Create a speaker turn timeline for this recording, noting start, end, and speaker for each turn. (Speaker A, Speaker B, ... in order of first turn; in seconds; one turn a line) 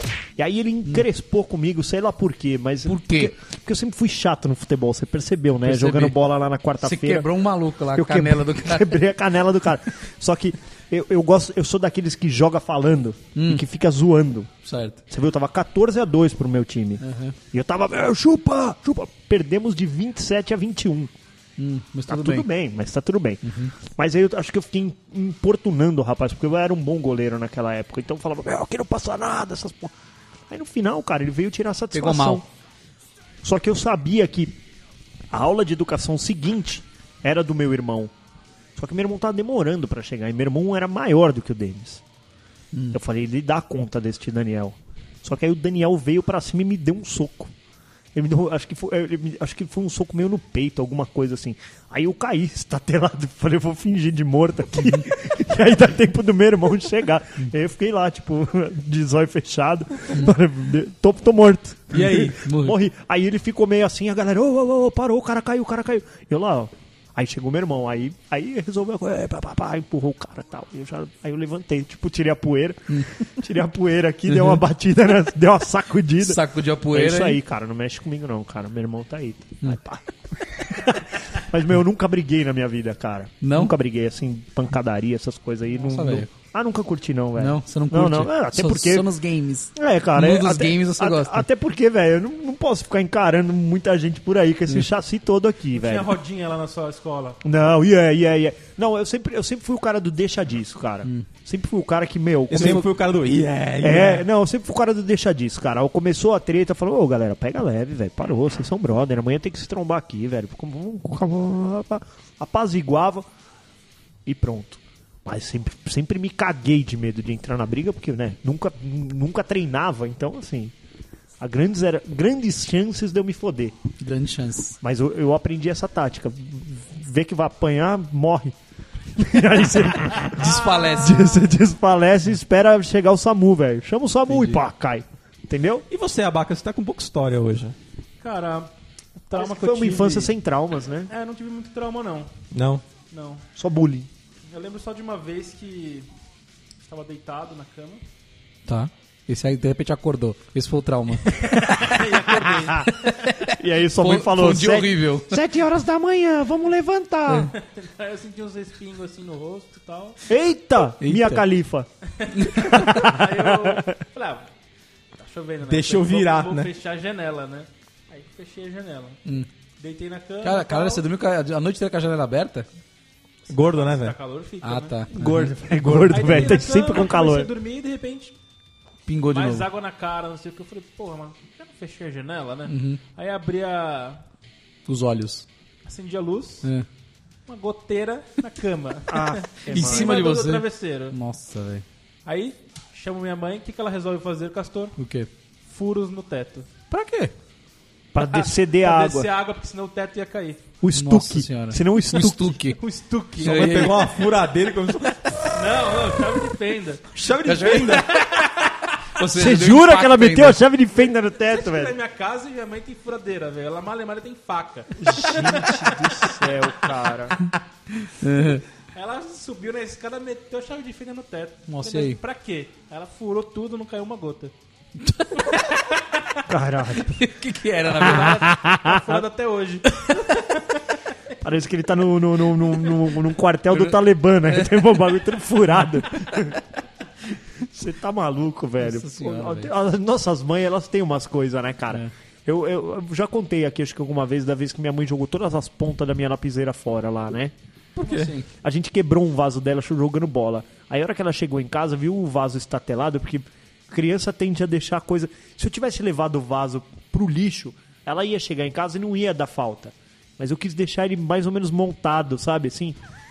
Speaker A: 0.4-7.3
Speaker B: 2.9-3.3
Speaker B: 5.6-6.2
Speaker B: 6.8-8.9
Speaker A: 7.9-14.5
Speaker B: 13.3-13.6
Speaker B: 14.6-15.0
Speaker A: 15.1-21.1
Speaker B: 17.0-17.4
Speaker B: 21.6-22.4
Speaker A: 22.1-29.9
Speaker B: 23.4-23.7
Speaker A: 30.5-32.5
Speaker B: 31.9-32.4
Speaker A: 33.4-34.5
Speaker A: 35.3-38.1
Speaker A: 38.8-42.0
Speaker B: 42.7-43.0
Speaker A: 42.9-47.5
Speaker A: 48.1-89.1
Speaker C: 61.9-62.4
Speaker B: 62.0-62.8
Speaker B: 74.3-74.6
Speaker B: 76.2-77.4
Speaker B: 83.4-83.7
Speaker B: 85.8-86.3
Speaker B: 87.4-91.5
Speaker A: 89.7-96.1
Speaker D: 95.7-97.4
Speaker A: 97.4-102.9
Speaker C: 102.5-104.2
Speaker A: 103.8-113.2
Speaker A: 114.2-120.7
Speaker A: 121.4-123.8
Speaker B: 124.0-124.8
Speaker A: 124.8-128.5
Speaker A: 129.2-135.8
Speaker B: 130.3-131.3
Speaker D: 130.3-131.5
Speaker B: 134.3-134.6
Speaker C: 135.9-137.7
Speaker D: 138.2-140.3
Speaker A: 139.3-141.1
Speaker D: 141.1-142.3
Speaker C: 142.5-142.8
Speaker D: 143.1-143.4
Speaker A: 143.6-144.1
Speaker D: 144.5-146.1
Speaker D: 146.8-148.0
Speaker B: 148.7-151.3
Speaker A: 151.4-152.9
Speaker D: 151.5-153.1
Speaker A: 153.4-157.5
Speaker B: 154.0-155.4
Speaker D: 157.5-160.2
Speaker A: 160.3-161.9
Speaker B: 161.0-161.4
Speaker D: 162.2-164.5
Speaker B: 162.4-162.8
Speaker A: 162.5-163.8
Speaker D: 165.1-169.2
Speaker C: 165.7-166.7
Speaker D: 169.8-171.0
Speaker B: 170.4-172.7
Speaker C: 173.5-174.2
Speaker D: 173.5-175.0
Speaker B: 174.6-175.5
Speaker A: 175.1-177.5
Speaker C: 175.8-176.5
Speaker D: 176.1-178.3
Speaker B: 179.1-179.7
Speaker D: 179.3-184.2
Speaker B: 182.7-183.0
Speaker B: 184.9-185.4
Speaker D: 185.8-186.7
Speaker D: 187.5-191.2
Speaker A: 189.1-190.2
Speaker B: 189.7-191.8
Speaker D: 192.2-194.9
Speaker B: 195.0-195.3
Speaker D: 195.7-196.7
Speaker B: 196.9-197.3
Speaker A: 198.1-199.3
Speaker D: 198.3-200.6
Speaker A: 200.8-202.6
Speaker B: 200.9-202.8
Speaker D: 202.8-203.8
Speaker B: 203.4-204.2
Speaker C: 203.4-205.7
Speaker D: 205.5-207.1
Speaker C: 207.1-208.2
Speaker B: 207.4-208.1
Speaker B: 209.1-210.6
Speaker A: 209.3-211.9
Speaker D: 211.3-216.0
Speaker A: 215.0-217.5
Speaker B: 218.1-218.6
Speaker D: 218.9-224.5
Speaker B: 221.7-222.2
Speaker B: 225.0-225.7
Speaker A: 226.5-227.2
Speaker B: 227.0-228.5
Speaker A: 227.9-229.2
Speaker D: 227.9-230.8
Speaker B: 229.9-230.2
Speaker A: 231.4-236.6
Speaker B: 234.5-234.8
Speaker A: 237.6-247.5
Speaker B: 238.8-239.7
Speaker C: 248.0-248.3
Speaker B: 248.0-248.5
Speaker A: 248.6-263.0